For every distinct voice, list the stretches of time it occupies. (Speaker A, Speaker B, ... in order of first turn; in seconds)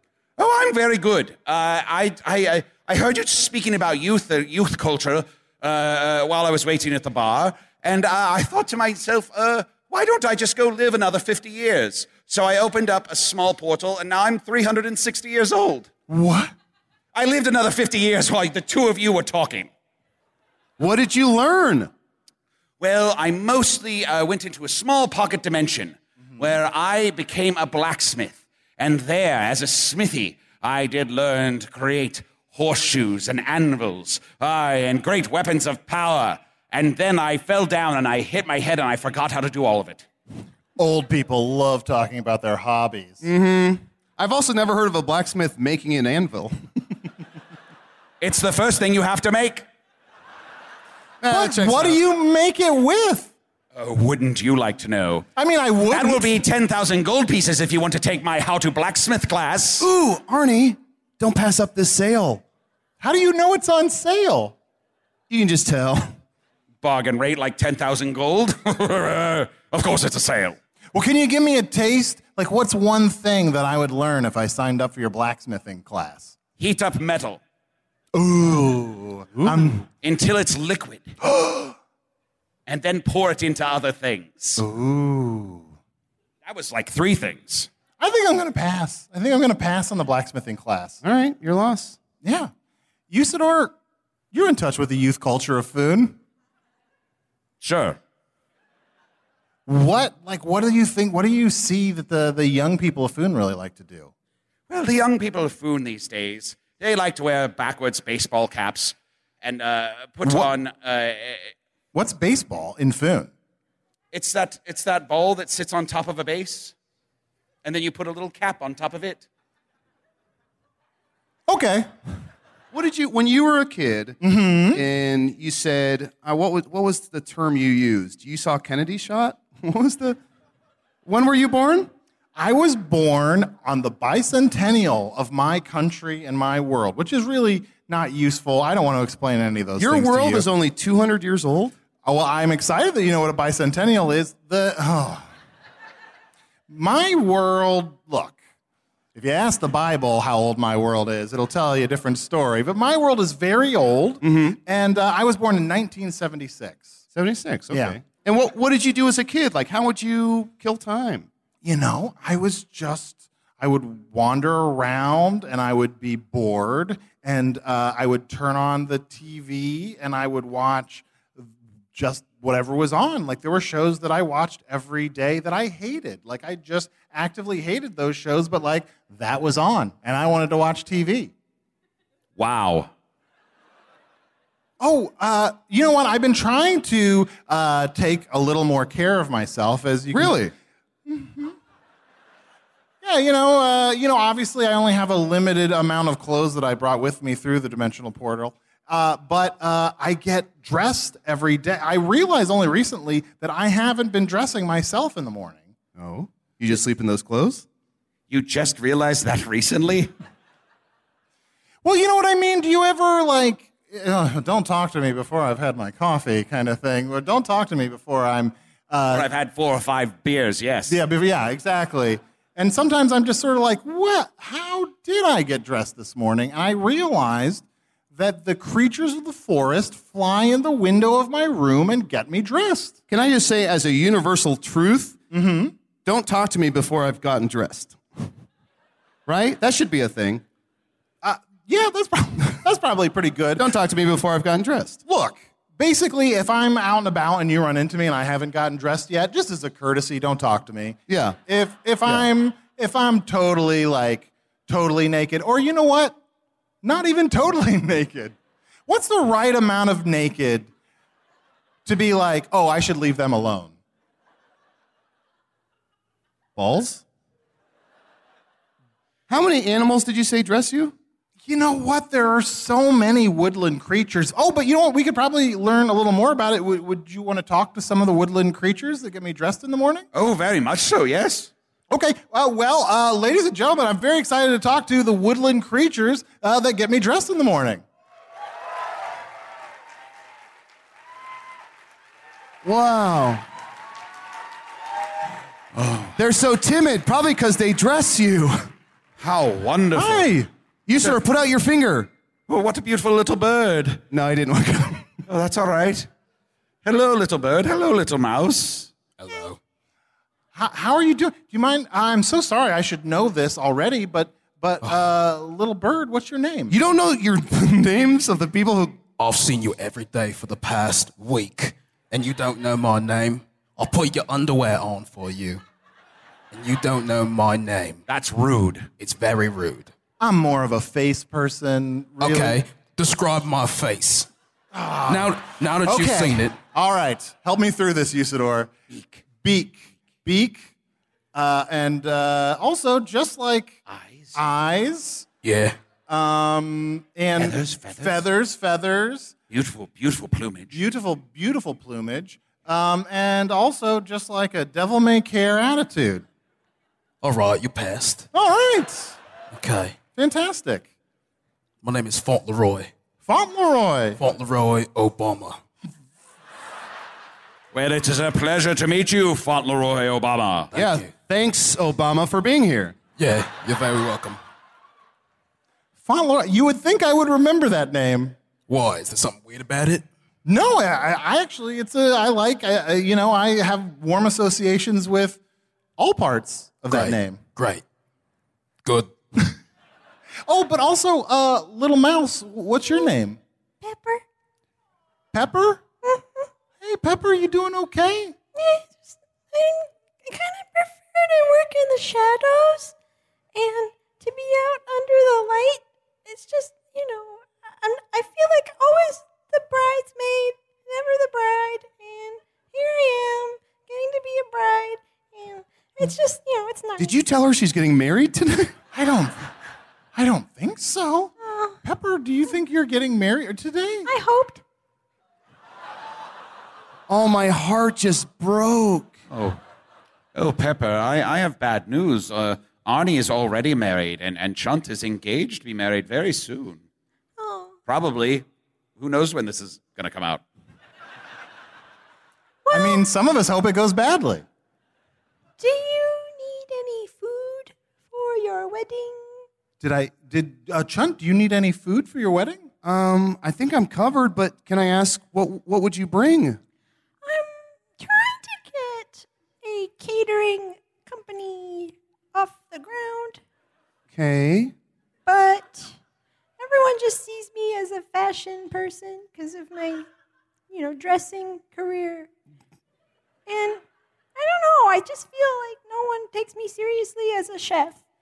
Speaker A: 0.4-15.9, 17.1-19.7, 22.8-40.0, 48.2-49.6, 53.8-55.3, 55.9-59.9, 66.8-70.6, 76.6-77.4, 80.0-81.1, 82.7-84.6, 86.4-87.7, 97.6-98.0, 104.7-111.5, 114.1-116.7, 117.6-119.2, 182.4-182.9, 208.3-210.1, 219.1-221.0, 280.1-281.5, 295.7-296.2, 299.2-300.3, 302.5-304.0, 305.3-306.1, 306.8-308.9, 328.1-328.9, 338.9-339.2, 343.9-344.4, 347.4-348.2, 349.5-350.8, 367.7-370.7, 429.3-429.6, 430.4-436.8, 437.9-438.4, 439.0-440.4
Speaker B: 16.1-16.5, 40.8-43.2, 51.3-53.3, 55.4-56.4, 63.0-64.5, 70.9-76.4, 78.1-79.9, 81.2-81.7, 84.6-85.7, 88.0-91.0, 92.2-92.5, 93.1-93.8, 94.3-96.2, 99.7-104.1, 110.2-110.5, 111.9-113.3, 121.5-121.9, 124.2-124.8, 132.4-140.5, 142.0-145.3, 146.7-148.4, 149.1-157.0, 157.7-158.0, 161.6-181.3, 184.8-190.4, 191.1-191.5, 193.0-205.7, 211.8-219.3, 220.9-227.6, 228.1-233.0, 235.3-235.8, 241.2-243.7, 245.1-256.2, 256.8-258.4, 258.9-260.7, 261.9-263.8, 266.6-267.0, 271.4-280.1, 281.9-287.8, 299.9-300.5, 310.5-316.8, 330.2-332.6, 334.7-338.7, 339.4-340.7, 341.3-343.8, 344.3-345.3, 346.1-349.3, 350.7-356.2, 358.3-359.2, 360.1-360.9, 363.2-364.2, 376.0-378.4, 380.4-385.4, 386.0-387.4, 390.4-393.4, 395.3-395.8, 396.8-398.4, 418.9-419.5, 420.1-424.1, 442.7-444.4, 449.8-452.7
Speaker C: 20.8-21.9, 43.2-46.6, 51.2-52.0, 59.8-62.4, 65.3-66.1, 91.0-92.0, 122.7-124.2, 124.7-130.2, 131.0-131.9, 139.8-141.8, 154.2-154.6, 157.1-161.3, 190.1-190.5, 205.9-207.6, 233.1-235.2, 236.0-238.2, 239.3-240.4, 243.6-245.0, 251.1-251.4, 269.3-270.9, 292.6-293.4, 296.2-298.6, 300.9-302.1, 304.1-305.1, 316.7-319.0, 370.8-373.0, 417.0-418.7, 427.1-429.1, 452.8-456.6, 464.1-464.7
Speaker D: 309.2-309.6, 319.2-325.6, 326.5-328.0, 329.0-329.9, 332.2-334.3, 335.1-336.5, 345.4-345.8, 357.2-358.3, 359.5-360.0, 361.8-362.9, 364.2-365.6, 370.7-371.1, 373.2-374.4, 378.7-380.0, 386.9-387.8, 388.8-389.5
Speaker E: 393.8-394.2, 396.0-396.5, 398.5-402.9, 403.5-417.1, 421.4-421.8, 424.0-424.6, 437.4-437.7, 442.6-443.0, 445.6-449.4, 457.2-463.4, 465.2-465.9, 466.6-470.1, 470.7-472.3, 473.5-473.8, 474.4-478.0